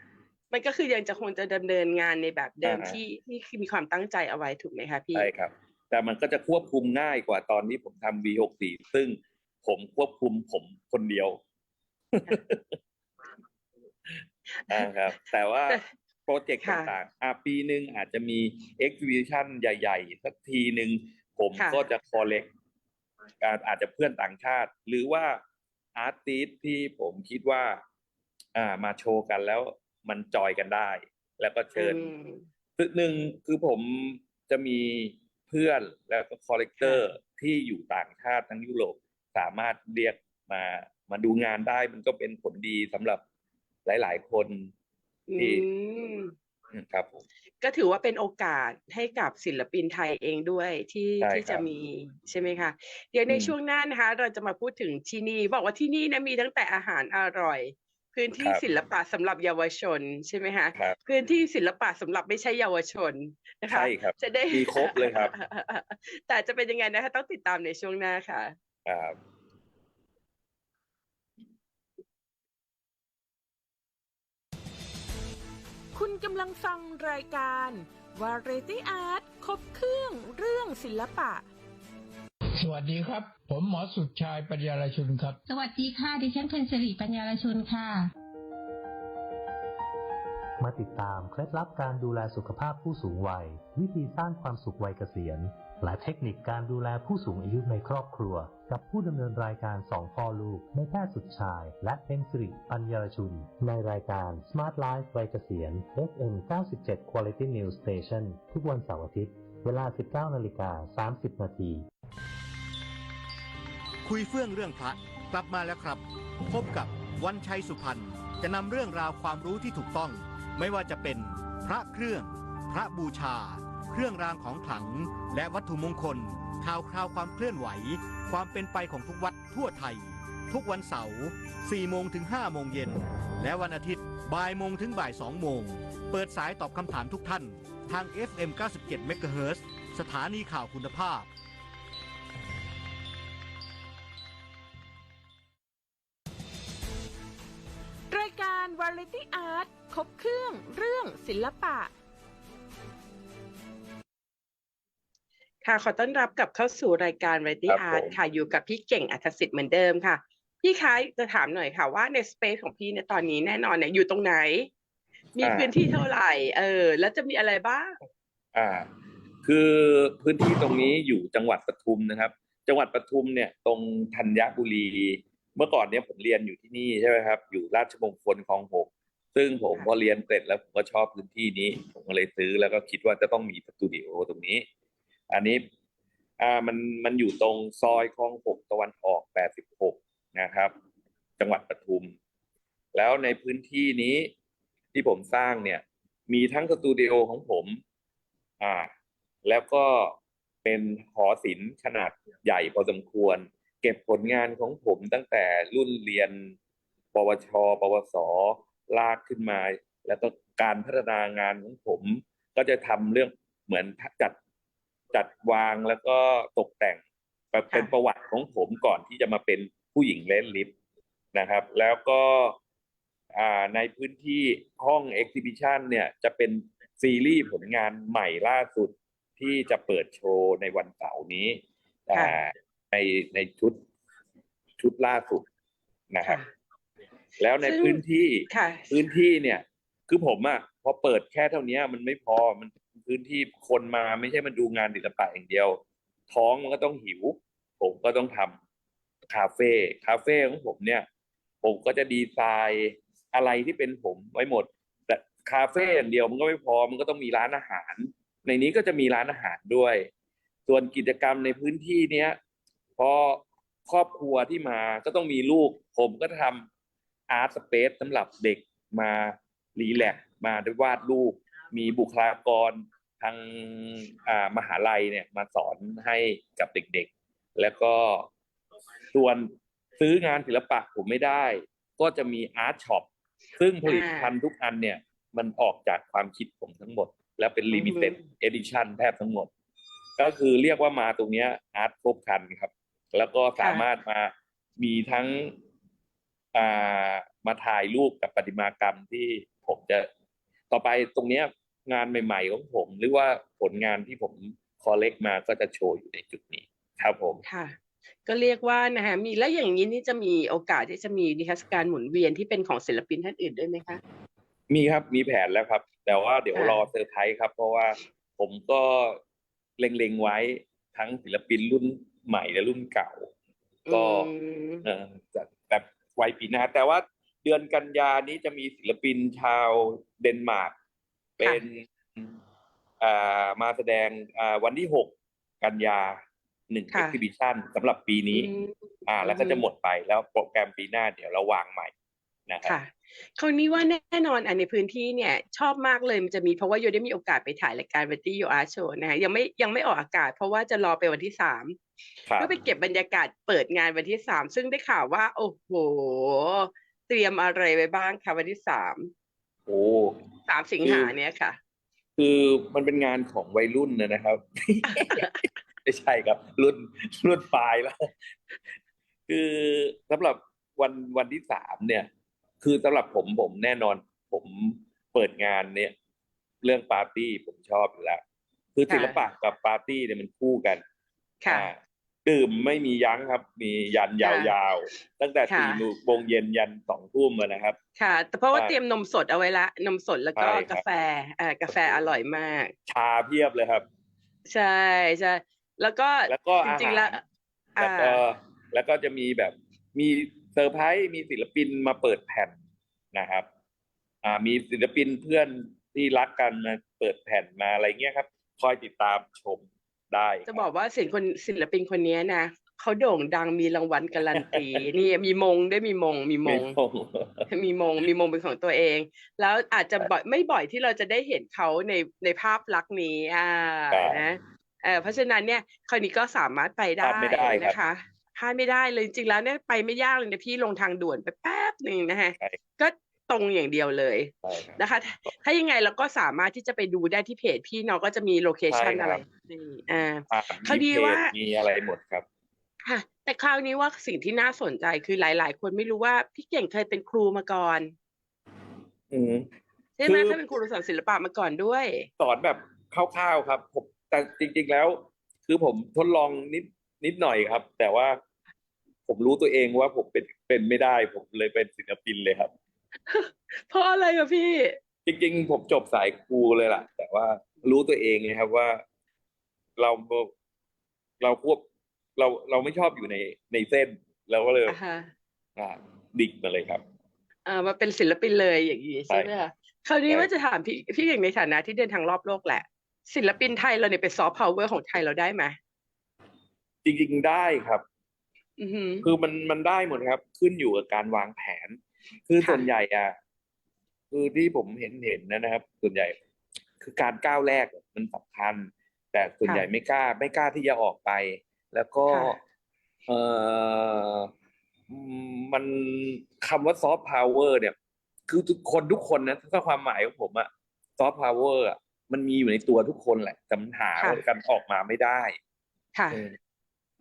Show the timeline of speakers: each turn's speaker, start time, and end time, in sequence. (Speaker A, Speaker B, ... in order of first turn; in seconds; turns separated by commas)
Speaker A: 0.5-5.3, Speaker B: 2.6-3.0, Speaker B: 5.1-11.4, Speaker B: 12.1-12.8, Speaker A: 14.6-14.9, Speaker B: 14.7-22.5, Speaker A: 16.6-16.9, Speaker A: 21.6-21.9, Speaker B: 23.4-25.4, Speaker B: 25.9-27.8, Speaker B: 28.5-32.0, Speaker A: 31.8-32.4, Speaker B: 32.8-43.2, Speaker A: 36.8-37.0, Speaker B: 43.9-44.7, Speaker A: 45.3-46.3, Speaker B: 45.4-45.6, Speaker B: 46.7-47.2, Speaker A: 47.6-68.5, Speaker B: 51.2-51.6, Speaker B: 53.3-53.5, Speaker B: 63.7-65.3, Speaker B: 68.9-69.2, Speaker C: 75.9-81.5, Speaker D: 82.6-85.4, Speaker E: 85.5-88.1, Speaker F: 90.6-111.9, Speaker G: 114.0-141.3, Speaker C: 148.1-151.9, Speaker A: 155.6-164.7, Speaker B: 157.7-158.1, Speaker A: 165.4-168.1, Speaker B: 165.4-165.7, Speaker B: 168.5-168.9, Speaker B: 169.4-184.7, Speaker B: 185.3-185.6, Speaker B: 186.4-190.7, Speaker B: 191.4-192.1, Speaker B: 192.9-194.3, Speaker B: 194.9-197.8, Speaker B: 198.6-198.9, Speaker B: 199.4-206.5, Speaker B: 207.1-214.4, Speaker B: 215.1-217.0, Speaker B: 217.5-220.7, Speaker B: 221.3-222.6, Speaker B: 223.3-233.8, Speaker B: 234.8-235.4, Speaker B: 236.1-236.4, Speaker B: 237.4-248.6, Speaker A: 237.6-238.9, Speaker B: 249.3-251.1, Speaker B: 251.6-260.1, Speaker B: 260.7-262.4, Speaker B: 263.0-266.7, Speaker B: 267.3-278.3, Speaker B: 279.1-289.5, Speaker A: 283.8-284.3, Speaker A: 287.7-288.2, Speaker B: 290.2-295.6, Speaker A: 293.6-293.8, Speaker B: 296.5-300.1, Speaker B: 300.7-307.4, Speaker A: 307.4-314.0, Speaker B: 314.7-319.2, Speaker A: 316.5-316.8, Speaker B: 319.8-323.3, Speaker A: 323.9-324.8, Speaker B: 323.9-324.3, Speaker B: 324.8-330.7, Speaker B: 331.4-332.4, Speaker B: 333.0-338.5, Speaker A: 336.9-337.2, Speaker A: 338.3-339.6, Speaker B: 339.1-341.9, Speaker B: 342.5-342.8, Speaker A: 342.6-351.8, Speaker A: 352.4-359.1, Speaker B: 359.7-360.1, Speaker A: 360.5-361.6, Speaker B: 360.8-361.1, Speaker B: 362.2-365.3, Speaker A: 364.9-365.3, Speaker B: 365.8-368.1, Speaker B: 369.3-372.1, Speaker B: 372.6-375.9, Speaker B: 376.6-378.2, Speaker B: 378.8-380.8, Speaker A: 378.9-379.2, Speaker A: 381.4-381.7, Speaker B: 381.5-387.8, Speaker A: 384.2-384.5, Speaker A: 385.5-385.8, Speaker A: 388.0-392.7, Speaker B: 390.4-390.8, Speaker B: 392.9-393.9, Speaker A: 394.5-397.2, Speaker B: 396.3-397.2, Speaker A: 397.8-398.2, Speaker B: 397.8-402.5, Speaker B: 403.1-403.5, Speaker B: 404.2-410.6, Speaker A: 410.5-416.8, Speaker B: 416.4-417.5, Speaker A: 417.5-441.3, Speaker B: 423.9-424.2, Speaker B: 427.0-427.8, Speaker B: 434.4-435.3, Speaker B: 438.7-439.2, Speaker B: 440.3-442.2, Speaker A: 442.8-447.9, Speaker B: 449.1-449.5, Speaker A: 450.0-452.1, Speaker B: 450.1-450.4, Speaker B: 452.2-458.2, Speaker B: 459.1-462.5, Speaker A: 463.1-464.8, Speaker B: 465.1-468.8, Speaker B: 469.8-470.3, Speaker B: 471.2-471.6, Speaker B: 472.2-474.8, Speaker A: 474.7-475.1, Speaker B: 475.6-476.8, Speaker A: 477.4-485.6, Speaker B: 486.8-487.8, Speaker A: 488.6-489.1, Speaker B: 489.0-493.1, Speaker B: 494.1-496.1, Speaker B: 496.8-502.4, Speaker A: 502.1-502.4, Speaker B: 503.1-504.3, Speaker B: 504.9-507.7, Speaker B: 508.3-515.4, Speaker A: 515.9-516.2, Speaker B: 516.1-516.4